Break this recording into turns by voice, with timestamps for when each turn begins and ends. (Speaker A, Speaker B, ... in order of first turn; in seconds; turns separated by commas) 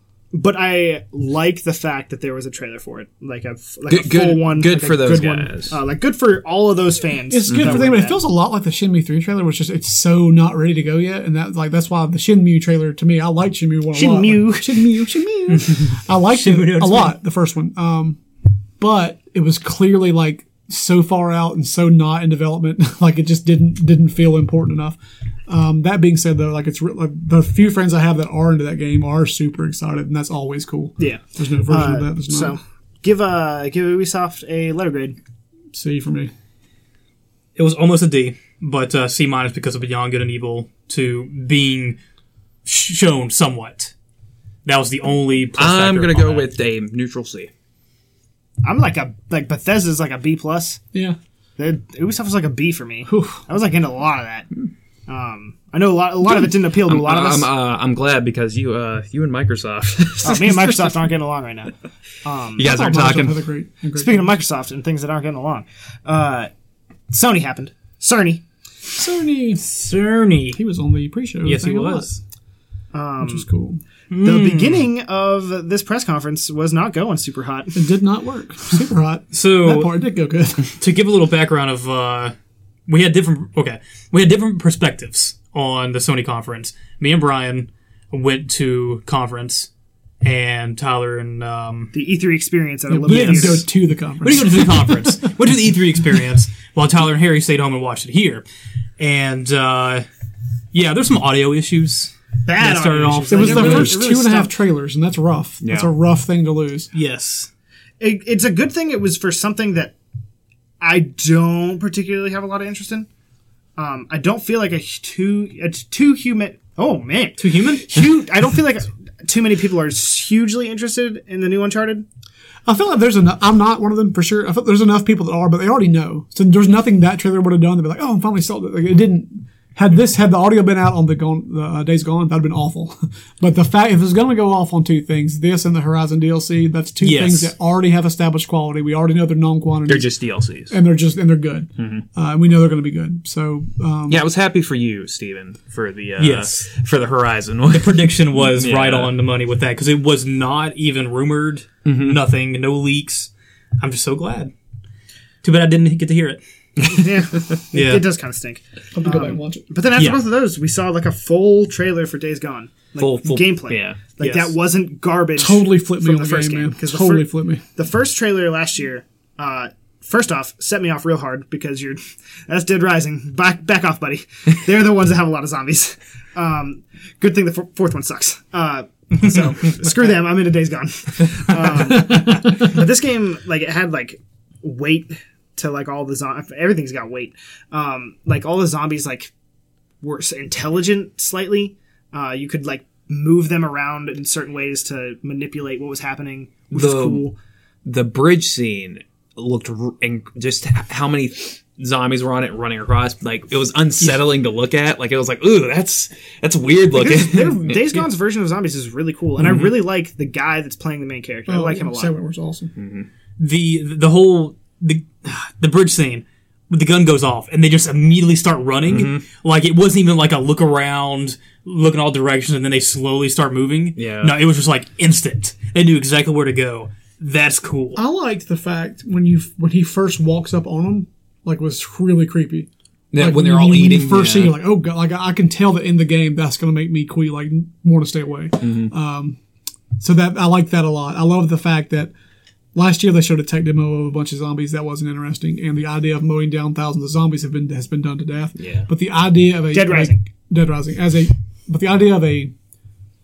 Speaker A: 0.3-8.2, Speaker B: 3.9-5.8, Speaker C: 7.3-18.2, Speaker B: 7.5-7.8, Speaker A: 13.9-14.8, Speaker D: 15.5-17.2, Speaker C: 18.8-25.0, Speaker C: 25.5-32.6, Speaker A: 31.0-35.2, Speaker C: 35.7-36.3, Speaker D: 37.6-42.0, Speaker D: 42.7-43.9, Speaker D: 44.6-46.5, Speaker B: 45.6-47.5, Speaker A: 48.6-50.8, Speaker A: 51.6-54.5, Speaker C: 53.1-53.4, Speaker A: 55.1-57.5, Speaker B: 56.4-61.0, Speaker A: 60.2-61.7, Speaker A: 62.2-62.7, Speaker B: 62.6-63.5, Speaker C: 62.6-64.4, Speaker A: 64.0-66.5, Speaker A: 67.1-68.4, Speaker C: 69.0-69.6, Speaker D: 69.6-70.6, Speaker C: 70.5-72.1, Speaker D: 71.4-72.2, Speaker A: 72.9-73.5, Speaker C: 73.2-73.8, Speaker D: 74.1-74.9, Speaker A: 74.2-77.8, Speaker C: 77.8-80.8, Speaker D: 79.3-79.9, Speaker D: 80.8-82.3, Speaker D: 82.9-89.7, Speaker D: 90.2-91.9, Speaker A: 91.9-93.7, Speaker C: 92.9-95.3, Speaker D: 93.1-93.7, Speaker D: 94.2-98.5, Speaker D: 99.0-100.1, Speaker D: 100.7-104.0, Speaker A: 102.5-104.5, Speaker C: 103.3-106.9, Speaker B: 105.6-105.9, Speaker D: 106.9-107.5, Speaker A: 108.0-110.0, Speaker A: 110.8-113.1, Speaker A: 113.8-122.0, Speaker D: 117.4-118.0, Speaker C: 122.7-144.2, Speaker B: 137.0-137.5, Speaker B: 139.9-140.8, Speaker B: 141.8-142.1, Speaker B: 144.1-149.1, Speaker D: 146.2-146.7, Speaker D: 147.7-153.3, Speaker B: 151.9-152.2, Speaker D: 153.8-154.5, Speaker D: 155.4-156.4, Speaker A: 156.8-189.3, Speaker D: 157.7-158.0, Speaker C: 158.9-159.7, Speaker D: 160.0-160.2, Speaker B: 163.0-164.0, Speaker D: 164.2-164.5, Speaker C: 165.4-167.6, Speaker C: 182.0-182.5, Speaker A: 190.0-197.4, Speaker B: 196.7-197.3, Speaker B: 197.8-208.0, Speaker A: 206.9-212.1, Speaker B: 209.4-209.8, Speaker C: 211.5-212.7, Speaker B: 212.8-213.1, Speaker D: 213.4-228.0, Speaker B: 218.9-219.2, Speaker B: 224.0-224.4, Speaker C: 228.0-239.4, Speaker B: 233.1-234.6, Speaker B: 238.6-238.9, Speaker C: 240.0-242.1, Speaker C: 242.8-252.5, Speaker B: 248.6-248.9, Speaker A: 249.7-250.2